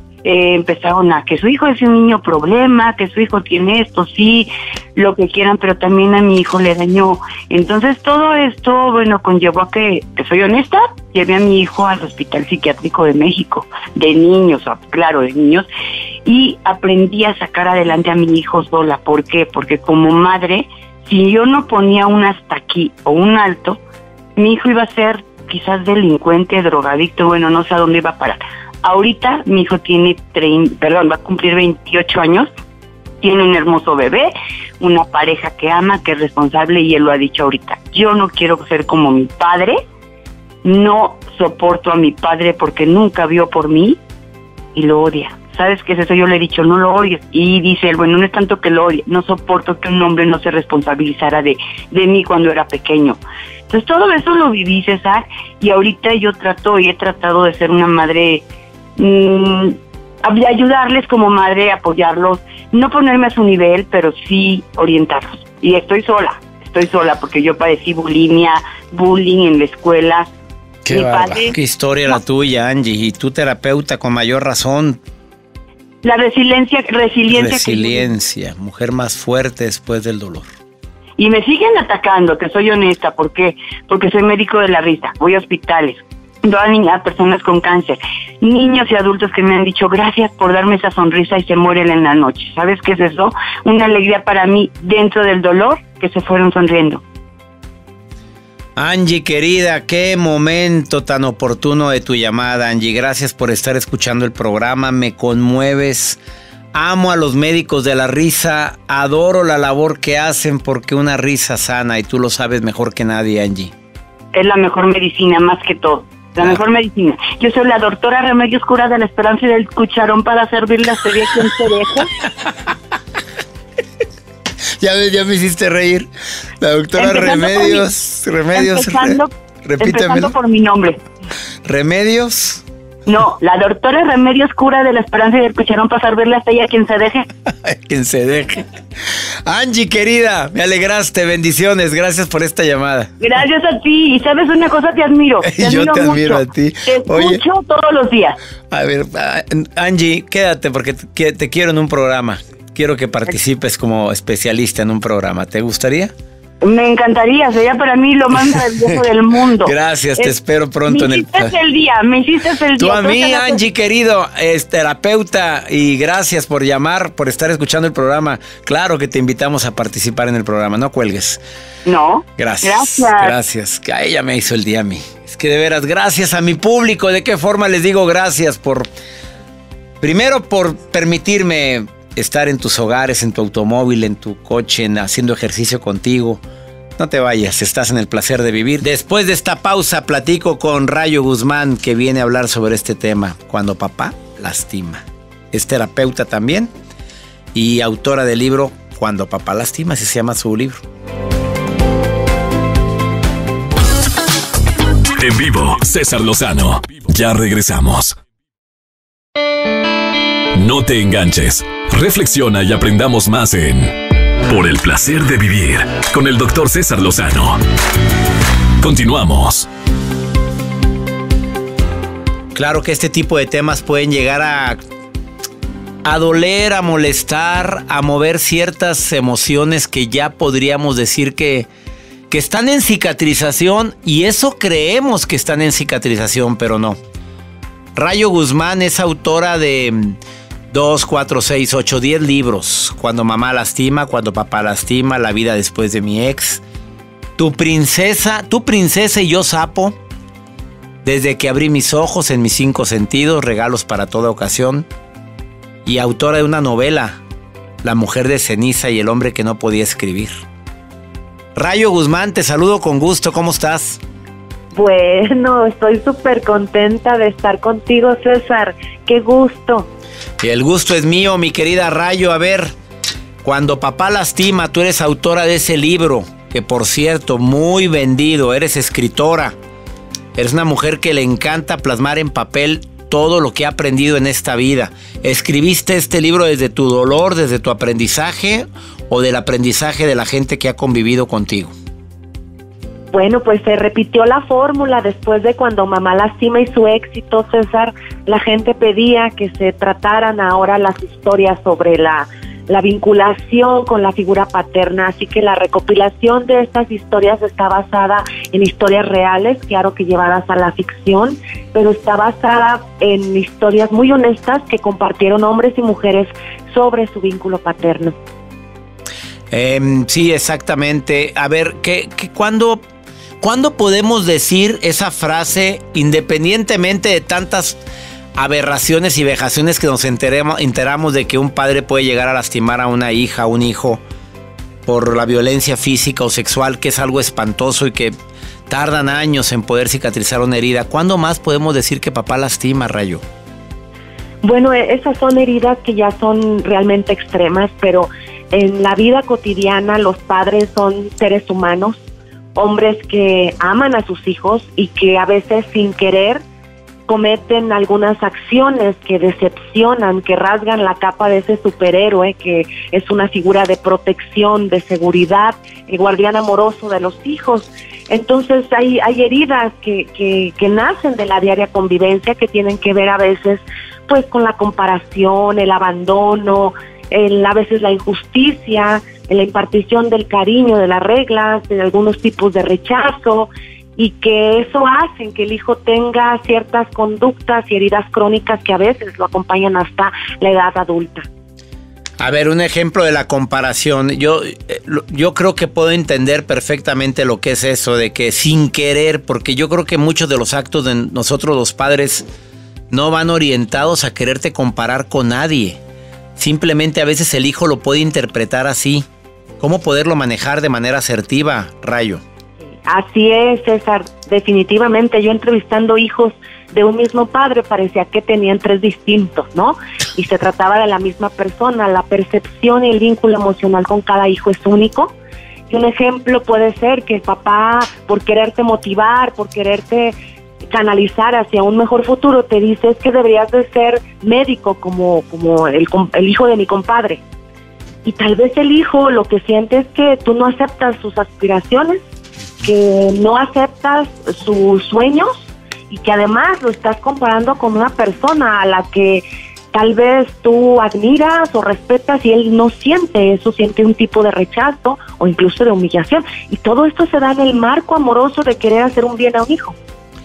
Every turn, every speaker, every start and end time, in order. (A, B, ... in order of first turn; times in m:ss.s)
0:00.2-0:15.7 A
0:16.2-0:23.8 A
0:24.4-0:32.5 A
0:33.2-0:39.8 A
0:40.6-0:44.0 A
0:44.7-0:58.4 A
0:59.0-1:10.3 A
1:10.9-1:15.0 B
1:10.9-1:11.6 A
1:16.0-1:18.1 A
1:17.3-1:20.5 B
1:21.2-1:37.0 A
1:38.8-1:46.2 B
1:46.7-1:53.7 B
1:54.3-2:02.1 A
2:04.8-2:10.3 B
2:07.0-2:07.9 A
2:08.5-2:11.0 A
2:11.6-2:12.6 B
2:13.1-2:17.3 A
2:17.5-2:18.7 B
2:19.4-2:23.1 B
2:23.2-2:28.4 A
2:25.4-2:27.4 B
2:28.7-2:36.1 B
2:36.6-2:40.4 A
2:38.5-2:39.0 B
2:39.6-2:41.6 B
2:40.9-2:43.6 A
2:42.8-2:51.4 B
2:51.9-2:53.4 A
2:52.4-2:58.9 B
3:00.0-3:06.4 B
3:07.0-3:16.7 B
3:17.5-3:20.8 B
3:25.2-3:28.2 C
3:30.5-3:37.6 C
3:38.8-3:39.7 C
3:42.5-3:44.8 B
3:46.0-3:51.7 B
3:52.3-3:57.0 B
3:58.0-4:00.2 B
4:00.7-4:06.6 B
4:07.4-4:10.0 B
4:11.0-4:14.9 B
4:15.8-4:17.2 B
4:17.8-4:20.4 B
4:21.6-4:24.0 B
4:24.7-4:29.9 D
4:30.4-4:32.7 B
4:33.4-4:39.6 B
4:40.4-4:51.7 B
4:53.1-5:18.2 D
5:19.5-5:22.8 B
5:23.4-5:27.8 B
5:28.4-5:34.0 B
5:34.9-5:38.2 B
5:38.7-5:43.2 B
5:44.4-5:52.0 D
5:52.6-5:56.4 D
5:57.1-6:31.3 D
6:32.2-6:42.3 B
6:42.9-6:45.8 B
6:46.4-6:49.1 B
6:49.6-6:52.2 B
6:52.9-7:05.1 D
7:05.7-7:10.2 D
7:10.7-7:17.2 D
7:18.0-7:22.0 D
7:22.6-7:39.8 D